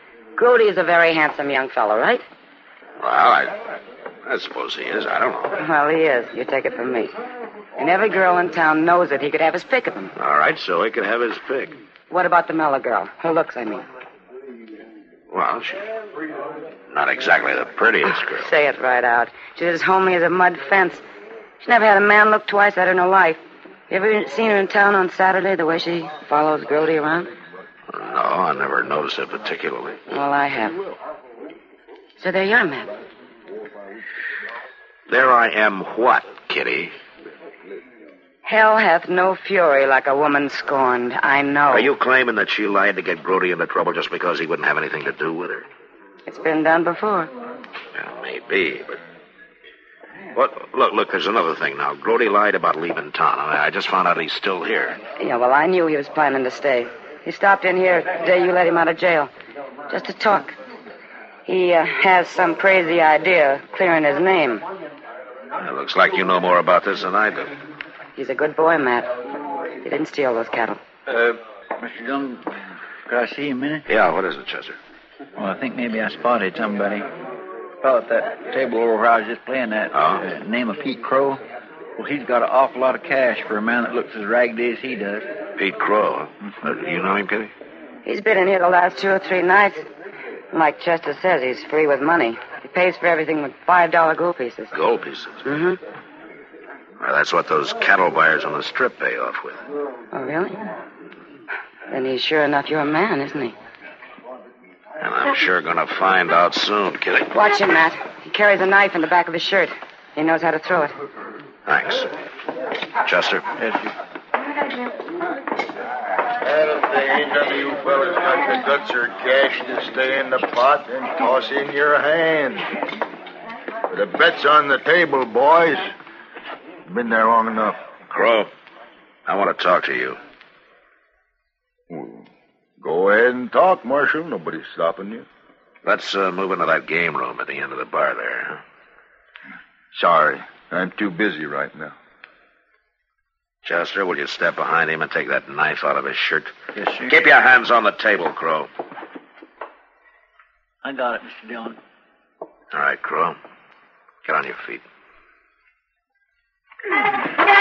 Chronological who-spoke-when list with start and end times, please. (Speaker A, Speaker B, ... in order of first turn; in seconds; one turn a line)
Speaker A: 0.3-2.2
Speaker B: 3.0-3.6
Speaker B: 4.2-5.6
Speaker A: 5.6-7.1
Speaker A: 7.8-10.1
Speaker B: 10.2-11.7
Speaker A: 12.1-13.8
Speaker B: 15.3-15.9
Speaker B: 16.9-18.5
Speaker A: 18.3-21.0
Speaker A: 21.6-27.3
Speaker B: 27.9-30.0
Speaker A: 30.1-30.8
Speaker A: 32.2-32.9
Speaker B: 35.1-36.9
Speaker A: 38.4-41.9
Speaker B: 41.7-45.7
Speaker A: 46.2-47.3
Speaker B: 47.9-49.0
Speaker B: 50.3-55.0
Speaker A: 55.2-59.3
Speaker A: 59.9-60.5
Speaker A: 61.5-64.6
Speaker B: 65.6-67.5
Speaker A: 68.2-69.1
Speaker A: 69.8-70.8
Speaker C: 71.1-72.5
Speaker C: 73.1-73.8
Speaker B: 73.9-74.8
Speaker C: 75.4-77.1
Speaker C: 77.8-81.4
Speaker B: 79.9-80.2
Speaker C: 82.0-85.2
Speaker B: 85.5-87.5
Speaker A: 88.0-89.9
Speaker A: 90.5-94.7
Speaker B: 94.7-95.5
Speaker A: 95.4-95.8
Speaker B: 97.0-99.6
Speaker A: 100.1-100.6
Speaker A: 101.9-103.5
Speaker B: 105.0-107.3
Speaker A: 107.3-110.9
Speaker B: 111.7-112.1
Speaker B: 113.0-113.4
Speaker C: 113.6-113.9
Speaker D: 116.4-122.7
Speaker D: 123.9-125.9
Speaker D: 126.8-127.8
Speaker B: 128.1-128.5
Speaker B: 129.2-130.2
Speaker D: 131.9-132.3
Speaker D: 132.8-135.2
Speaker B: 135.8-138.6
Speaker D: 139.9-141.9
Speaker B: 143.6-146.5
Speaker C: 146.8-147.1
Speaker B: 147.1-148.7
Speaker C: 150.8-151.8
Speaker B: 152.7-153.4
Speaker B: 154.2-154.8